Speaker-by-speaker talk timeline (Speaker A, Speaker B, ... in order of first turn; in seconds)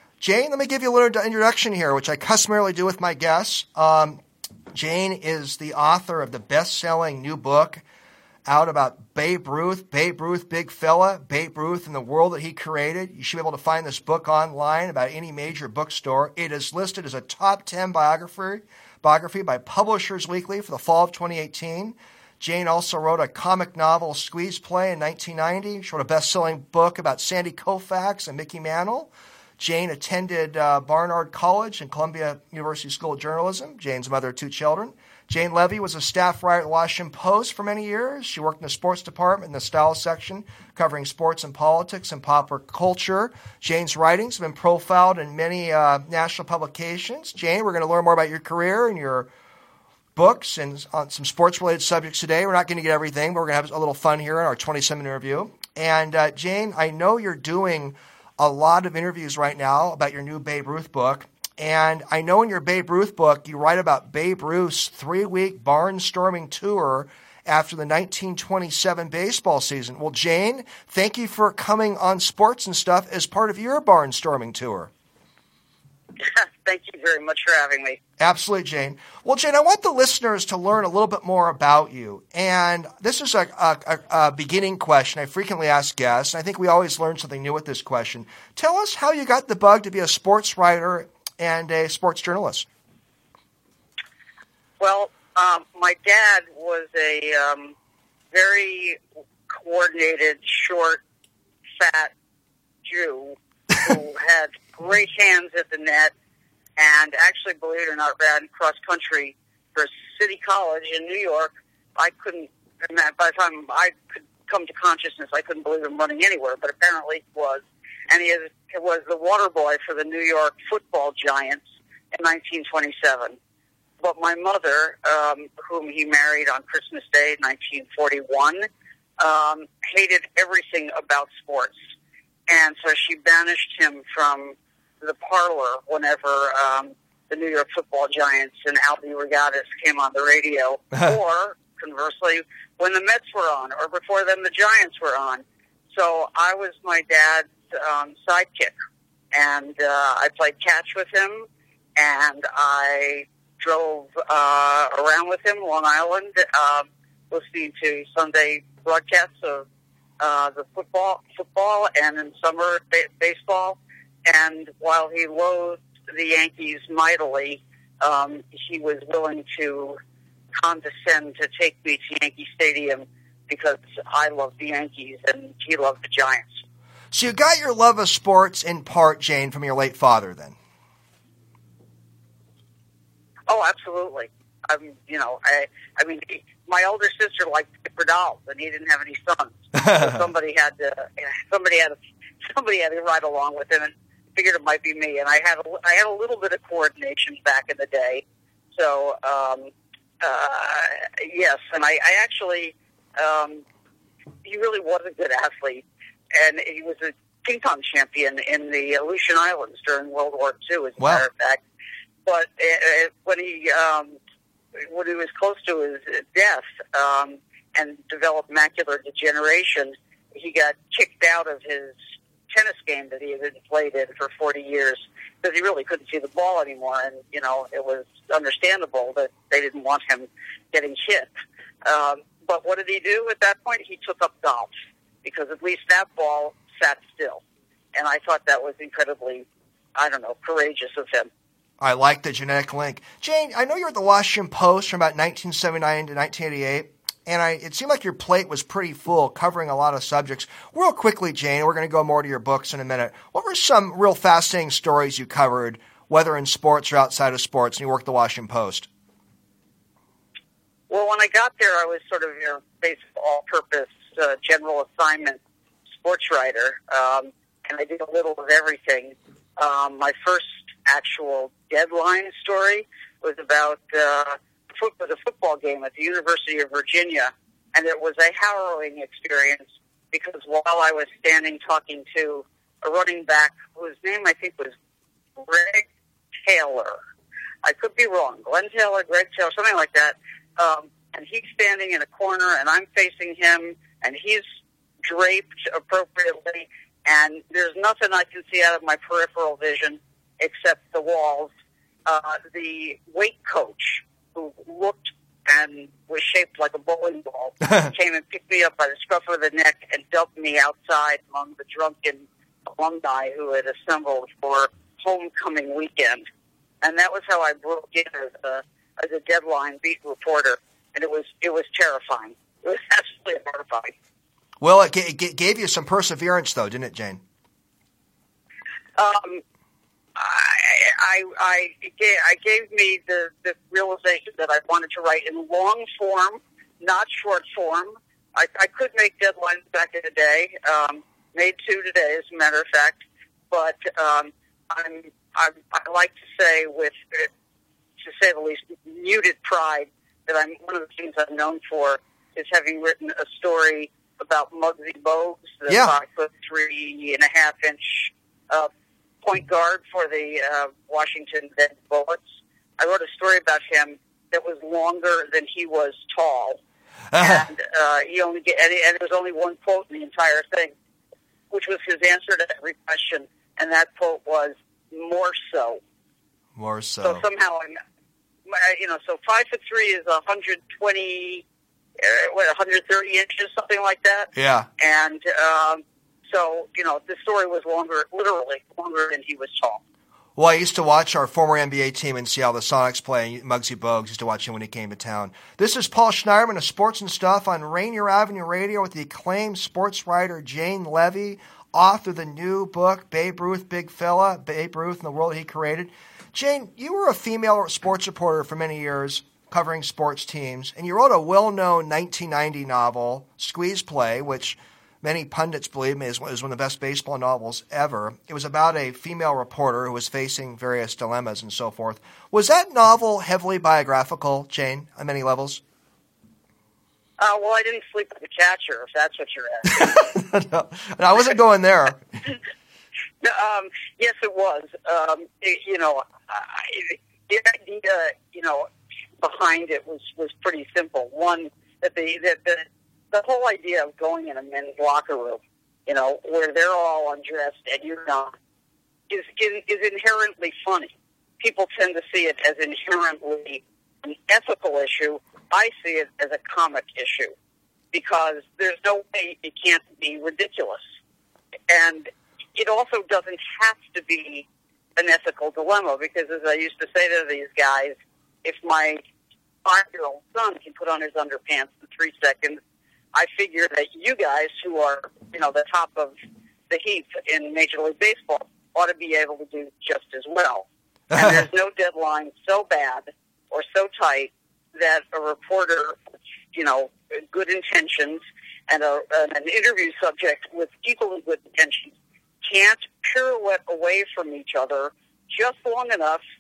Speaker A: 0.2-4.2, 4.7-7.8, 8.5-49.3, 50.2-74.9, 78.2-92.7, 177.1-180.6, 211.0-211.2, 241.8-258.9, 324.6-327.2, 355.7-355.9, 367.1-367.5, 376.6-377.2, 384.4-384.7, 390.4-425.6, 429.7-432.2, 481.1-481.4
Speaker B: 76.2-78.0, 94.8-97.8, 98.3-101.0, 101.8-102.1, 102.8-106.1, 106.8-123.4, 124.0-128.7, 129.2-131.8, 132.5-148.8, 149.3-159.7, 160.2-170.0, 170.5-176.6, 183.5-203.6, 204.4-211.6, 212.3-214.2, 214.8-222.0, 222.5-231.3, 231.8-234.7, 235.2-237.4, 237.9-241.3, 260.9-265.4, 266.0-284.7, 285.4-285.9, 286.4-287.0, 287.6-294.4, 295.0-301.5, 302.1-316.2, 316.8-323.9, 329.0-329.4, 330.2-347.3, 348.0-358.7, 359.2-362.2, 362.8-366.6, 367.2-370.7, 371.5-375.8, 377.0-377.8, 378.5-381.4, 382.0-389.8, 427.2-429.9, 433.2-438.7, 439.2-448.3, 449.1-457.3, 457.9-460.8, 461.7-469.0, 469.6-472.6, 473.1-476.1, 476.7-486.0, 486.5-496.2